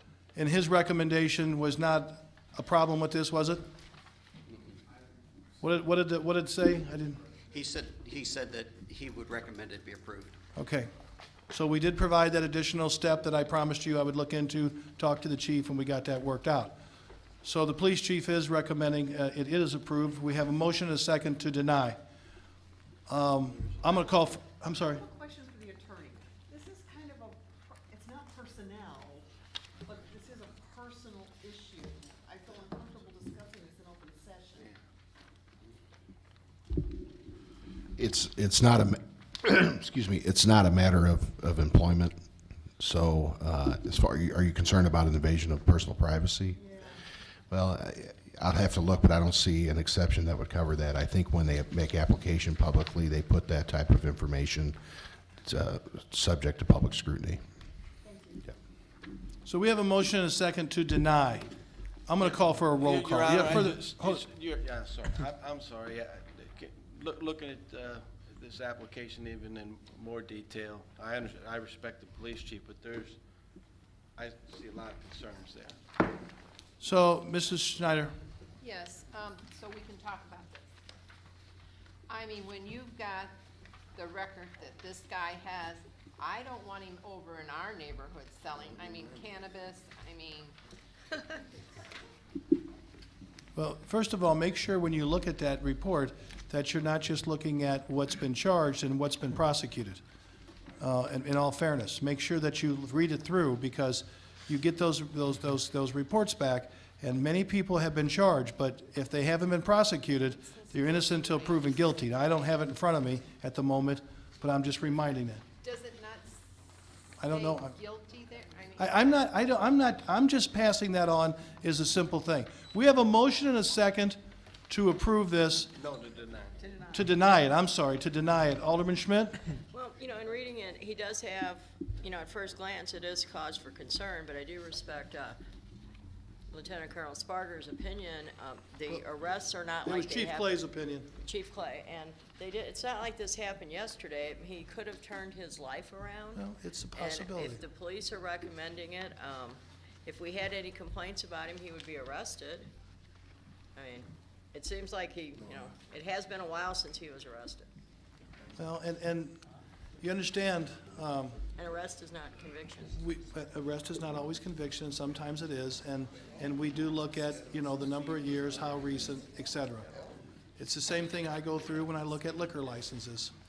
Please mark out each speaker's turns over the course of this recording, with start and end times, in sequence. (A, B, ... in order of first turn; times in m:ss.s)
0:00.3-0:03.6 A
0:05.6-0:07.2 A
0:07.5-0:10.4 B
0:10.6-0:10.9 A
0:11.5-0:16.7 A
0:17.4-0:22.0 A
0:23.1-0:25.0 A
0:24.8-0:29.3 C
0:29.8-0:34.7 C
0:38.0-0:42.2 D
0:42.8-0:46.6 D
0:46.6-0:47.0 C
0:47.5-0:54.8 D
0:55.4-0:57.4 D
0:58.0-0:58.5 C
0:59.4-1:01.5 A
1:02.1-1:04.2 A
1:02.2-1:13.2 E
1:14.2-1:15.8 E
1:16.8-1:18.1 A
1:18.6-1:20.7 F
1:22.1-1:23.3 F
1:24.0-1:30.5 F
1:33.5-1:40.0 A
1:40.8-1:55.4 A
1:50.4-1:51.8 F
1:55.6-1:59.3 F
1:57.2-1:57.8 A
1:58.8-2:04.2 A
2:04.7-2:05.7 A
2:05.8-2:06.7 E
2:06.9-2:09.4 A
2:09.7-2:15.4 G
2:16.5-2:20.5 G
2:19.8-2:21.1 A
2:21.2-2:26.4 G
2:26.4-2:27.6 A
2:26.9-2:32.7 G
2:33.8-2:37.7 G
2:38.6-2:39.4 A
2:40.0-2:41.4 A
2:41.6-2:43.0 G
2:43.0-2:49.9 A
2:50.6-2:53.3 A